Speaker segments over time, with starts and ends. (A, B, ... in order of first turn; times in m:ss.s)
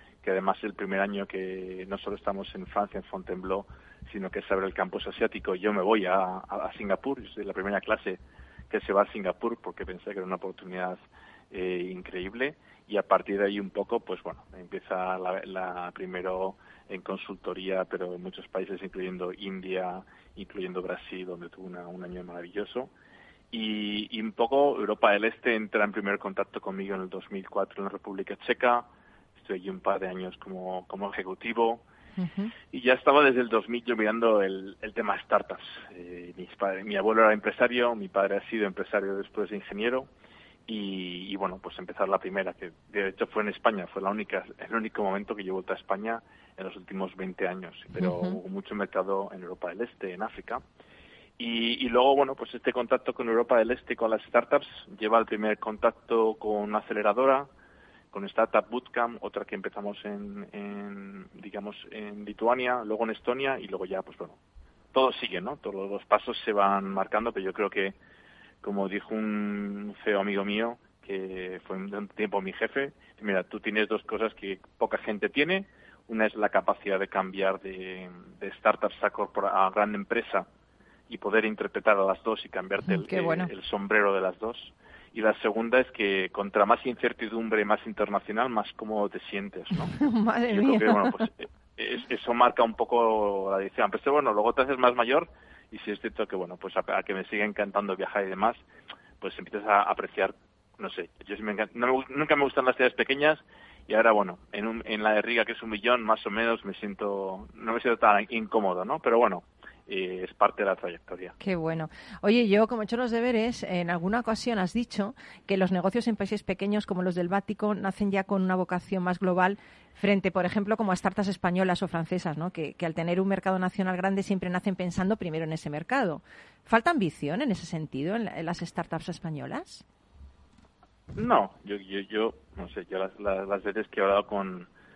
0:00.2-0:11.0 A
0:11.5-0:22.9 A
0:23.5-0:31.8 A
0:32.2-0:32.5 B
0:32.7-0:40.1 A
0:40.7-0:50.6 A
0:48.0-0:48.4 B
0:51.4-0:57.5 A
0:58.1-1:04.4 A
1:04.9-1:08.0 A
1:08.6-1:20.5 A
1:21.1-1:29.9 A
1:22.8-1:23.5 B
1:29.9-1:31.3 B
1:30.5-1:38.6 A
1:39.2-1:51.3 A
1:51.4-2:09.8 B
2:11.2-2:14.7 A